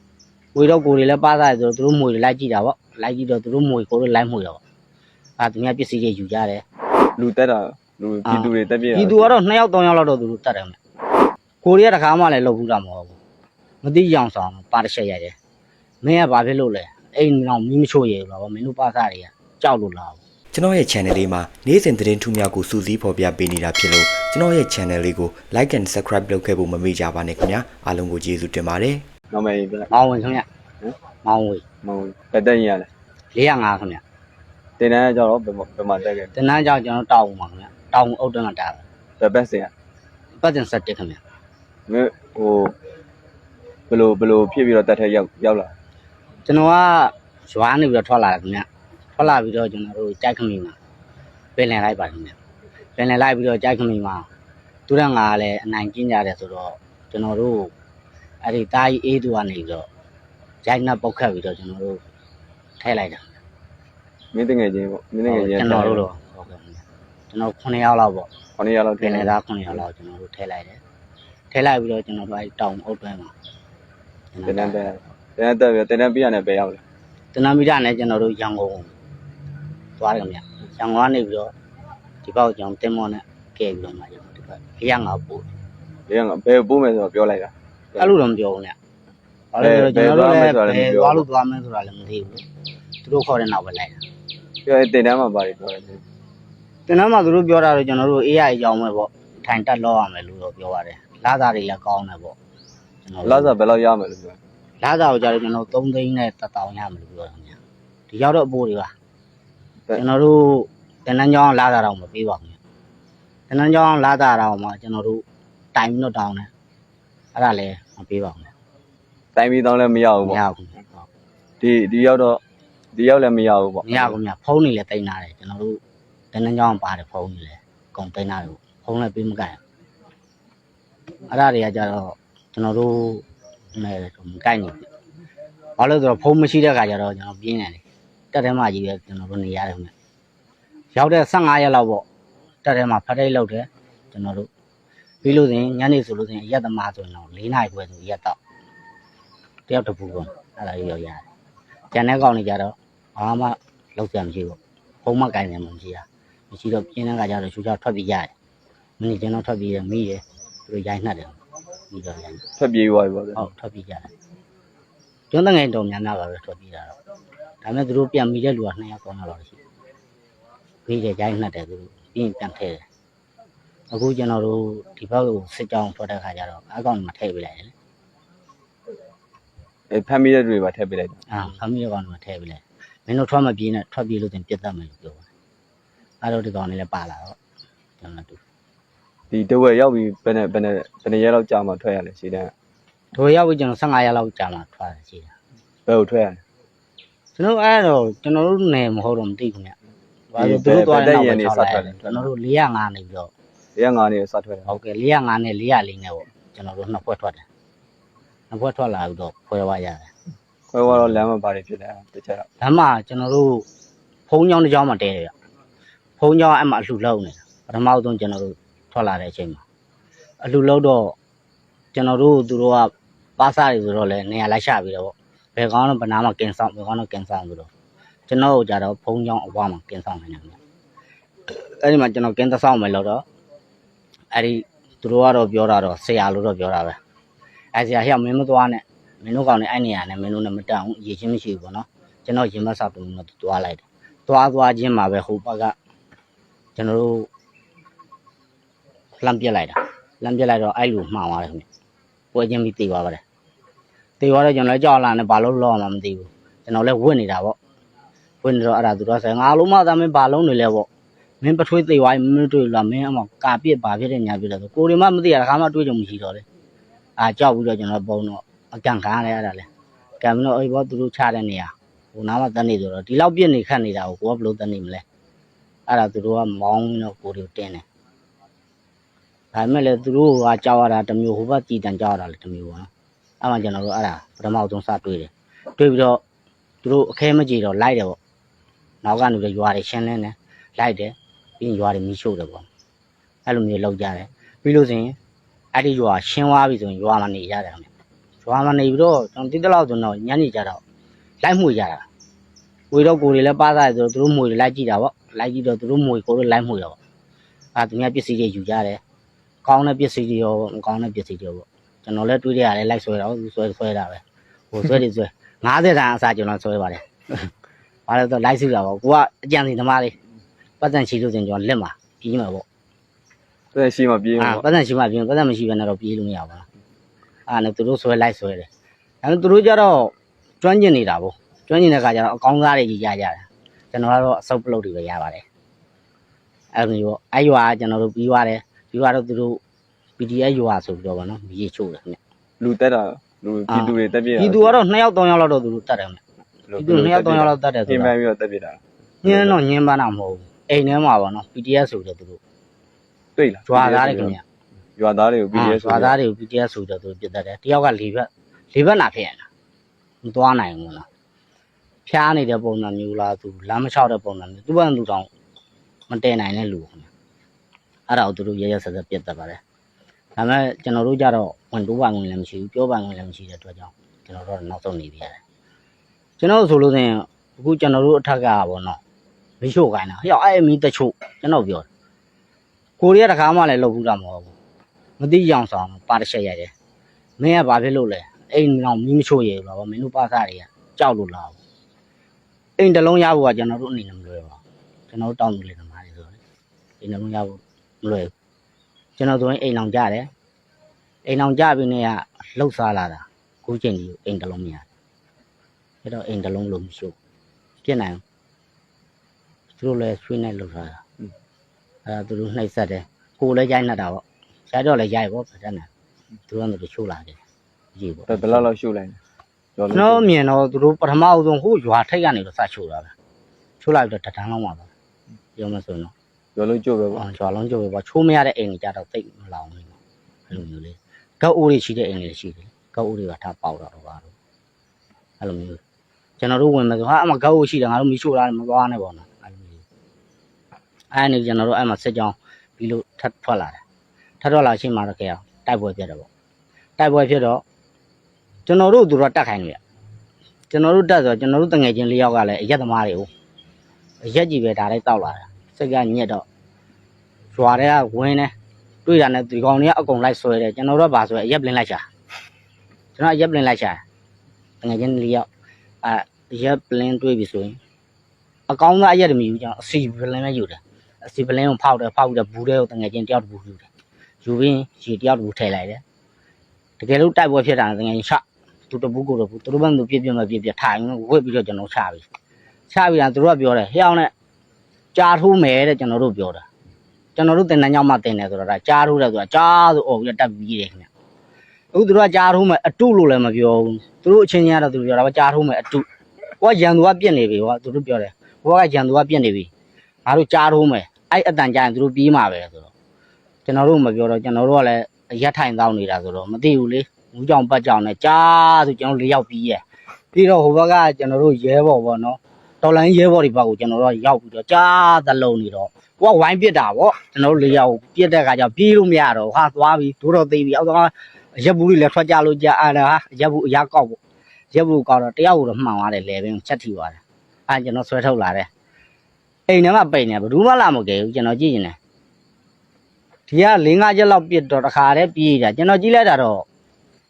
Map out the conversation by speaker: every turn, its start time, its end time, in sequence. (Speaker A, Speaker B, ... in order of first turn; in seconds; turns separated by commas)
Speaker A: 0.6-4.6, Speaker A: 5.4-6.6, Speaker B: 7.2-9.3, Speaker A: 8.3-10.8, Speaker A: 11.6-13.2, Speaker A: 13.8-15.3, Speaker A: 16.0-20.2, Speaker C: 20.5-29.0, Speaker B: 29.3-29.9, Speaker A: 29.9-30.5, Speaker A: 31.2-31.6, Speaker B: 31.8-32.9, Speaker A: 33.3-34.0, Speaker B: 34.8-36.3, Speaker A: 36.4-38.8, Speaker B: 39.2-39.7, Speaker A: 40.4-41.2, Speaker B: 41.9-42.7, Speaker B: 43.9-45.7, Speaker A: 46.5-50.8, Speaker A: 51.6-52.4, Speaker A: 53.0-54.3, Speaker A: 54.9-57.7, Speaker A: 58.4-59.9, Speaker A: 60.6-62.0, Speaker A: 62.8-63.3, Speaker B: 64.3-66.1, Speaker A: 65.3-68.3, Speaker B: 68.6-69.3, Speaker A: 69.0-70.8, Speaker A: 71.5-73.3, Speaker A: 74.3-74.8, Speaker B: 74.5-76.8, Speaker A: 77.3-78.9, Speaker A: 80.0-81.5, Speaker A: 82.2-85.5, Speaker B: 86.1-88.1, Speaker A: 88.0-88.8, Speaker A: 89.5-92.4, Speaker B: 89.6-91.2, Speaker A: 93.0-94.0, Speaker B: 94.7-96.0, Speaker A: 96.9-102.4, Speaker A: 103.0-103.5, Speaker B: 103.2-104.4, Speaker A: 104.8-107.6, Speaker A: 108.1-108.9, Speaker A: 110.0-112.6, Speaker A: 113.5-116.5, Speaker A: 117.3-118.5, Speaker B: 119.3-120.4, Speaker A: 120.2-121.1, Speaker B: 121.6-122.4, Speaker B: 122.9-124.2, Speaker A: 123.8-125.8, Speaker A: 126.3-129.6, Speaker A: 131.3-134.9, Speaker A: 135.8-139.9, Speaker A: 140.9-142.1, Speaker A: 142.6-144.5, Speaker A: 145.2-148.4, Speaker A: 149.7-151.2, Speaker A: 151.9-158.3, Speaker A: 159.0-161.4, Speaker A: 161.9-162.4, Speaker B: 162.6-163.4, Speaker A: 163.4-164.1, Speaker A: 165.3-167.0, Speaker A: 167.6-169.6, Speaker A: 170.9-172.8, Speaker A: 173.9-177.7, Speaker B: 179.9-181.2, Speaker A: 181.3-185.3, Speaker A: 186.2-187.4, Speaker A: 188.0-188.4, Speaker B: 189.3-192.5, Speaker A: 193.2-195.3, Speaker B: 195.9-196.4, Speaker A: 197.4-199.8, Speaker A: 200.3-203.3, Speaker B: 200.4-202.3, Speaker B: 203.8-204.7, Speaker A: 204.7-207.4, Speaker A: 208.5-210.1, Speaker B: 210.7-212.5, Speaker A: 212.6-213.7, Speaker A: 214.3-215.3, Speaker A: 216.2-219.6, Speaker A: 220.4-221.2, Speaker A: 221.9-227.7, Speaker A: 228.3-230.6, Speaker A: 231.5-233.2, Speaker A: 234.3-237.0, Speaker A: 237.7-245.8, Speaker A: 246.8-247.3, Speaker A: 249.2-251.7, Speaker A: 252.3-253.2, Speaker A: 254.2-257.6, Speaker A: 258.4-260.9, Speaker A: 261.4-266.4, Speaker A: 267.2-269.7, Speaker A: 270.2-275.0, Speaker A: 275.9-277.8, Speaker A: 279.5-282.9, Speaker A: 283.4-286.2, Speaker A: 286.8-288.2, Speaker A: 289.0-292.7, Speaker A: 293.5-295.2, Speaker A: 295.7-297.9, Speaker A: 298.4-300.8, Speaker A: 301.4-302.1, Speaker A: 302.9-307.0, Speaker A: 307.8-309.0, Speaker A: 309.6-317.5, Speaker A: 318.1-320.2, Speaker A: 320.8-322.6, Speaker B: 323.7-324.7, Speaker A: 324.4-326.7, Speaker A: 327.5-328.7, Speaker A: 329.2-335.4, Speaker A: 336.8-339.6, Speaker A: 340.2-342.2, Speaker B: 342.6-344.8, Speaker A: 343.7-346.2, Speaker B: 346.7-349.6, Speaker A: 346.8-348.1, Speaker A: 349.2-352.4, Speaker B: 353.4-354.4, Speaker A: 353.7-354.4, Speaker B: 355.0-356.2, Speaker A: 355.5-359.5, Speaker A: 360.2-361.1, Speaker A: 362.1-365.3, Speaker A: 366.1-367.1, Speaker A: 368.1-369.6, Speaker A: 370.4-375.4, Speaker A: 376.4-379.0, Speaker A: 379.6-381.9, Speaker A: 383.0-384.5, Speaker A: 385.2-386.7, Speaker A: 387.4-391.6, Speaker A: 392.8-396.4, Speaker A: 397.0-398.3, Speaker A: 399.2-400.3, Speaker A: 401.3-404.9, Speaker A: 406.0-407.1, Speaker A: 407.8-408.2, Speaker A: 409.8-411.0, Speaker A: 412.1-415.9, Speaker A: 416.5-417.4, Speaker A: 418.0-418.7, Speaker B: 418.3-419.2, Speaker B: 419.8-420.2, Speaker A: 419.9-423.1, Speaker A: 423.8-424.9, Speaker A: 425.6-426.1, Speaker B: 426.6-427.2, Speaker A: 427.2-430.0, Speaker A: 430.5-434.3, Speaker A: 435.4-435.8, Speaker A: 436.4-439.8, Speaker A: 441.1-443.8, Speaker A: 444.4-446.3, Speaker A: 447.0-447.6, Speaker A: 448.7-449.8, Speaker A: 450.7-453.3, Speaker A: 454.2-456.4, Speaker A: 457.5-458.5, Speaker A: 459.1-462.1, Speaker A: 463.2-464.0, Speaker A: 464.8-465.5, Speaker A: 466.0-467.8, Speaker A: 468.7-473.9, Speaker A: 474.4-476.0, Speaker A: 477.0-482.3, Speaker A: 482.9-484.3, Speaker A: 485.1-486.6, Speaker A: 487.4-491.1, Speaker A: 491.9-496.1, Speaker A: 496.6-499.7, Speaker A: 500.2-502.9, Speaker A: 503.6-524.2, Speaker A: 524.7-528.7, Speaker A: 529.7-532.0, Speaker A: 533.5-536.7